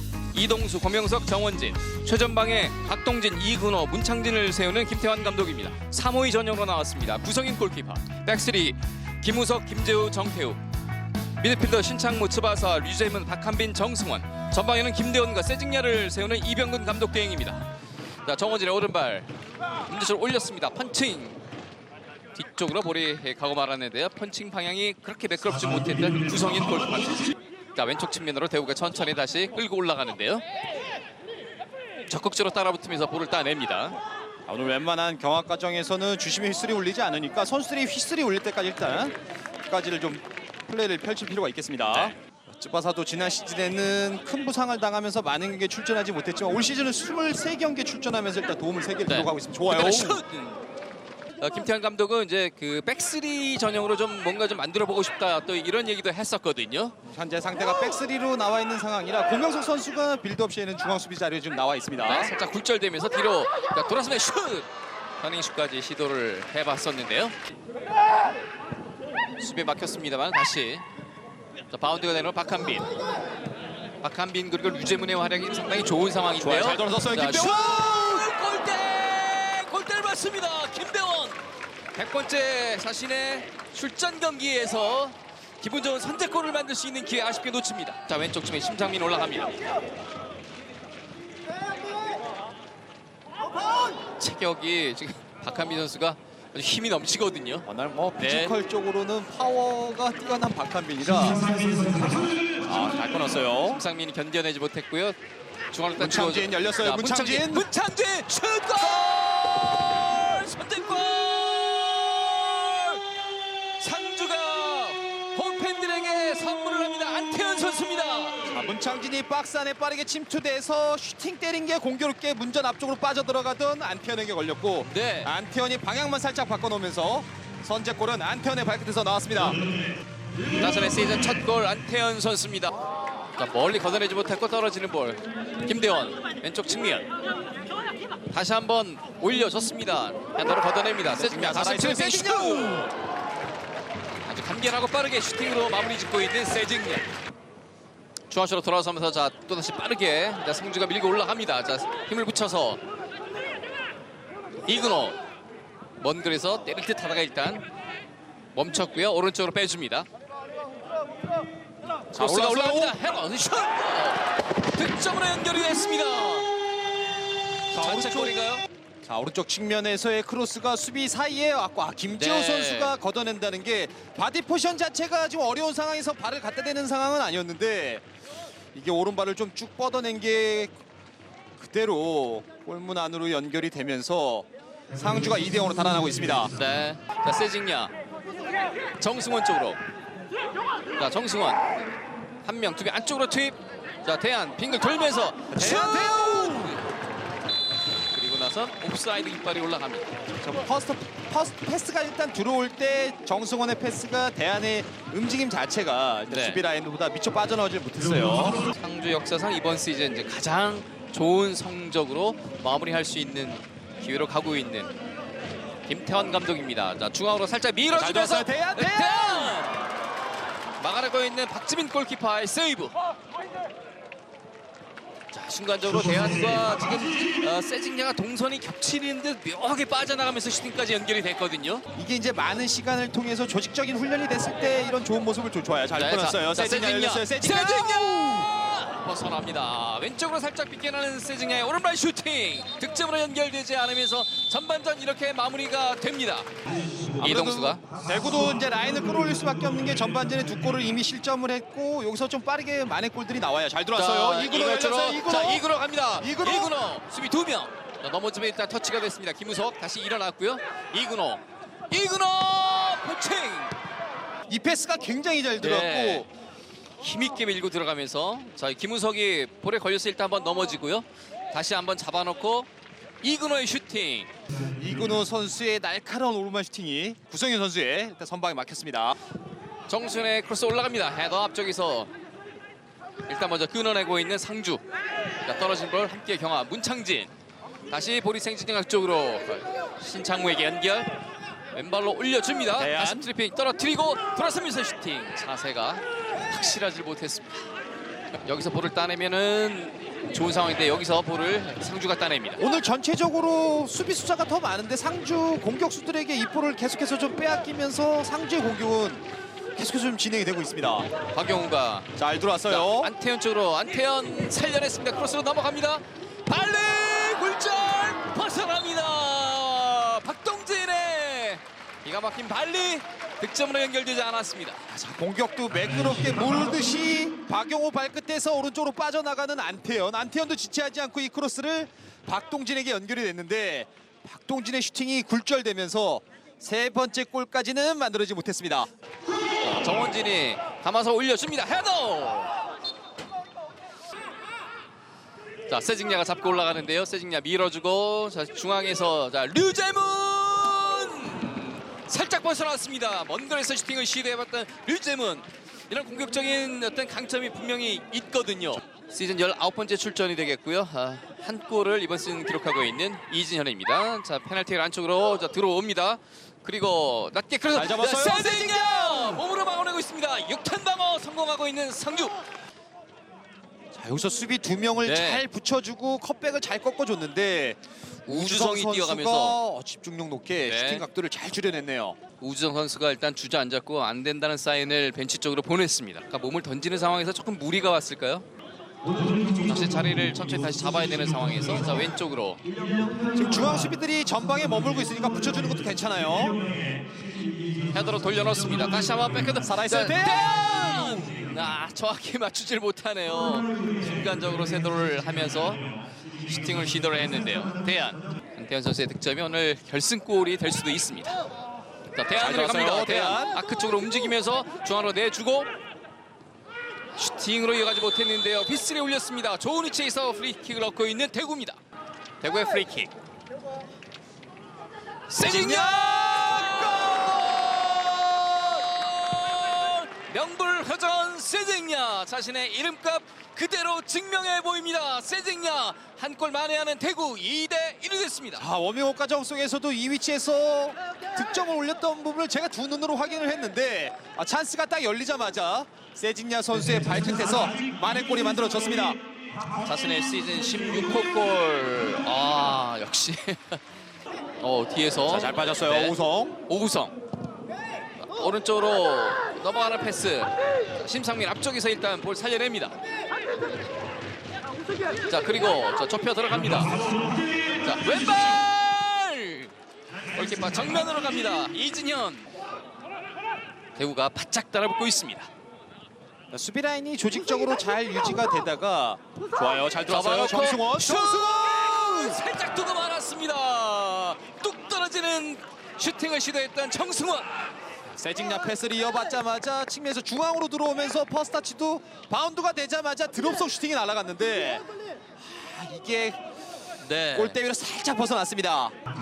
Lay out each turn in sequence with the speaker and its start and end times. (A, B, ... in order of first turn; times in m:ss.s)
0:00.3-0:10.6 A
0:11.4-0:17.7 A
0:18.2-0:19.3 A
0:19.9-0:21.4 A
0:22.3-0:30.4 A
0:32.1-0:34.0 A
0:34.5-0:39.1 B
0:39.6-0:50.2 B
0:41.9-0:42.1 A
0:49.1-0:50.6 A
0:51.4-0:56.9 A
0:57.1-1:02.3 B
1:02.0-1:04.7 A
1:05.2-1:07.4 A
1:09.4-1:10.8 A
1:11.7-1:12.9 A
1:14.0-1:21.4 A
1:16.4-1:18.2 B
1:21.9-1:29.5 A
1:34.2-1:37.6 A
1:37.6-1:43.8 B
1:38.2-1:38.5 A
1:43.7-1:45.2 A
1:45.7-1:53.0 A
1:46.0-1:47.7 B
1:53.8-1:58.5 A
1:58.5-2:09.6 B
2:04.9-2:05.3 A
2:10.6-2:12.8 A
2:13.4-2:17.1 A
2:18.3-2:22.9 A
2:21.1-2:22.9 B
2:24.2-2:27.1 A
2:28.3-2:32.8 A
2:34.6-2:35.2 A
2:36.0-2:37.6 A
2:38.5-2:40.1 A
2:42.1-2:46.6 A
2:42.1-2:43.0 B
2:47.7-2:48.6 A
2:47.7-2:48.3 B
2:49.0-2:58.0 B
2:52.1-2:52.9 A
2:58.7-3:00.7 B
3:01.6-3:06.5 B
3:06.4-3:07.9 A
3:09.0-3:09.8 A
3:11.0-3:11.7 A
3:12.4-3:16.8 A
3:15.5-3:16.8 B
3:18.1-3:20.1 A
3:20.4-3:28.6 B
3:26.3-3:26.6 A
3:28.6-3:34.9 A
3:35.8-3:39.8 A
3:37.9-3:39.6 B
3:40.8-3:42.9 A
3:45.3-3:51.8 A
3:52.0-3:58.5 B
3:55.9-4:06.5 A
4:07.1-4:07.8 A
4:07.2-4:15.6 B
4:13.9-4:23.7 A
4:16.2-4:16.7 B
4:24.5-4:26.2 B
4:25.6-4:26.3 A
4:27.0-4:32.7 A
4:33.2-4:34.3 A
4:34.8-4:39.2 B
4:39.9-4:42.1 A
4:43.3-4:44.8 A
4:45.4-4:47.3 A
4:47.9-4:51.1 A
4:51.7-4:57.7 A
4:52.8-4:53.3 B
4:58.4-5:02.6 A
5:02.6-5:09.2 B
5:09.8-5:11.1 B
5:11.3-5:12.1 A
5:12.2-5:13.1 B
5:12.7-5:24.8 A
5:24.9-5:38.9 B
5:39.6-5:42.5 A
5:45.7-6:12.4 A
6:07.7-6:09.2 B
6:13.9-6:22.2 B
6:15.0-6:15.4 A
6:18.3-6:19.6 A
6:20.6-6:21.0 A
6:22.4-6:28.4 A
6:29.4-6:32.6 A
6:33.3-6:36.6 B
6:37.9-6:45.8 A
6:39.6-6:41.3 B
6:46.4-6:51.4 A
6:52.1-6:55.7 A
6:52.4-6:53.6 B
6:57.2-7:01.8 A
7:02.4-7:03.1 A
7:05.3-7:18.6 A
7:05.4-7:07.2 B
7:18.6-7:29.2 B
7:29.8-7:33.8 A
7:34.6-7:36.2 A
7:35.3-7:36.6 B
7:36.7-7:37.1 A
7:38.2-7:43.0 A
7:45.2-7:46.9 A
7:47.7-7:49.7 A
7:50.3-7:52.5 A
7:54.0-7:55.5 A
7:56.5-8:02.4 B
7:59.6-8:07.5 A
8:08.2-8:14.8 B
8:15.4-8:16.4 B
8:17.0-8:17.6 A
8:17.3-8:18.9 B